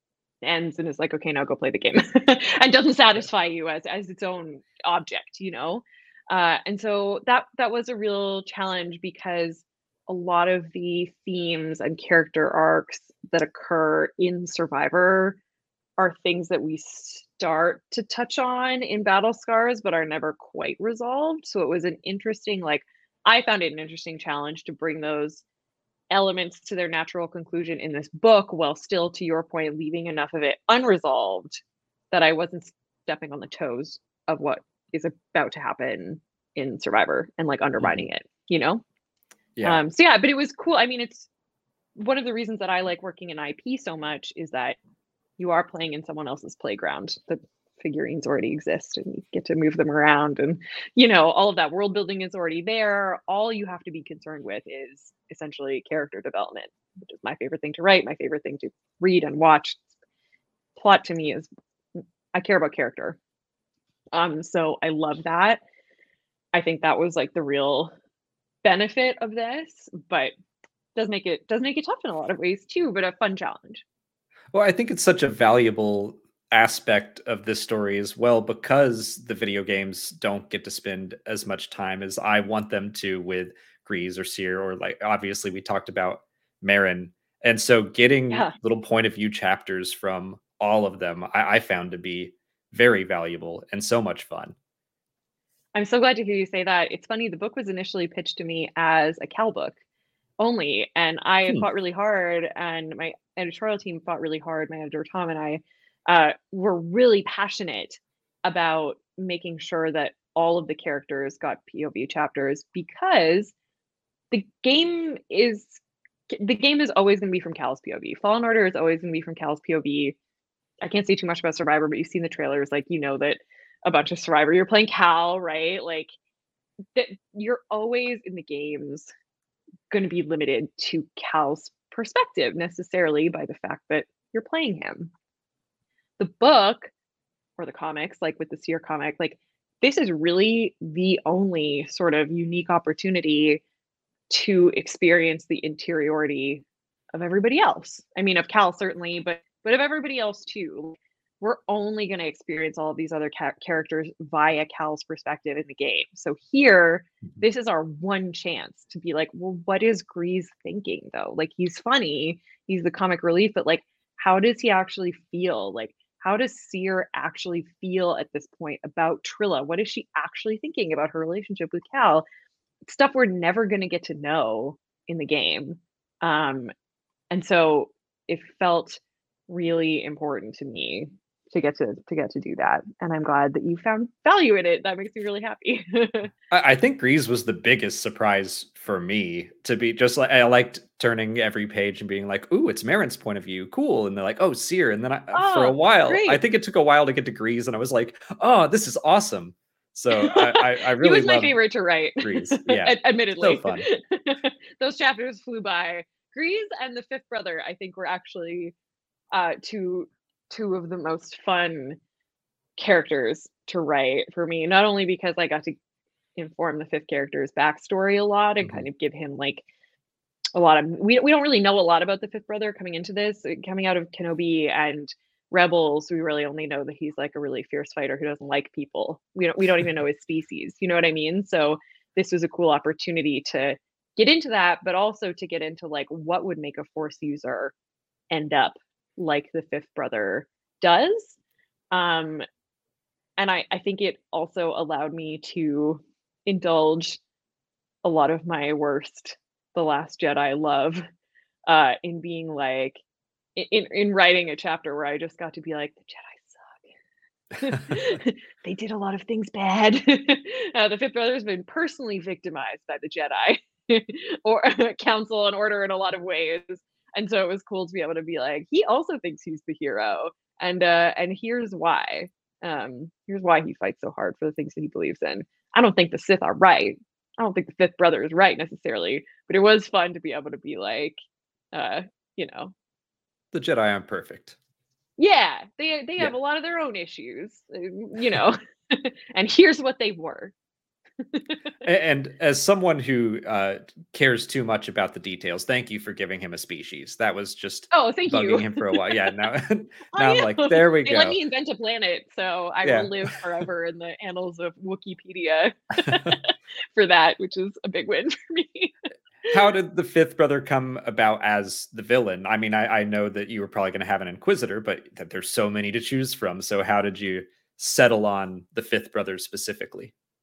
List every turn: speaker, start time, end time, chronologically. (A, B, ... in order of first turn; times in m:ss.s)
0:00.4-0:15.4 A
0:16.0-0:25.4 A
0:26.1-0:38.8 A
0:37.8-0:38.0 B
0:39.6-0:39.8 B
0:39.6-0:41.3 A
0:42.0-0:44.8 A
0:45.4-0:59.8 A
1:00.8-1:03.2 A
1:04.1-1:05.6 A
1:06.5-1:07.9 A
1:08.6-1:10.3 A
1:10.9-1:13.8 A
1:14.5-1:34.5 B
1:35.7-1:39.8 A
1:40.4-1:53.5 A
1:54.3-2:00.2 A
2:00.8-2:06.1 A
2:06.9-2:09.1 A
2:09.9-2:15.1 A
2:16.2-2:16.9 A
2:17.6-2:23.6 A
2:24.3-2:52.2 A
2:52.8-2:56.7 A
2:57.3-3:06.3 A
3:06.5-3:21.6 B
3:15.3-3:16.4 A
3:20.1-3:28.7 A
3:22.2-3:23.9 B
3:29.3-3:32.0 A
3:32.8-3:35.7 A
3:36.4-3:39.6 A
3:40.5-3:57.7 A
3:58.3-4:01.4 A
4:01.9-4:02.4 A
4:03.4-4:07.2 A
4:08.0-4:11.0 A
4:11.6-4:13.0 A
4:13.6-4:16.8 A
4:17.6-4:41.2 A
4:41.7-4:42.7 A
4:43.5-4:44.6 B
4:45.2-4:50.5 A
4:51.2-4:51.7 A
4:51.8-5:01.4 B
4:57.9-4:59.3 A
5:00.1-5:08.9 A
5:02.8-5:03.3 B
5:06.0-5:06.4 B
5:09.5-5:20.1 B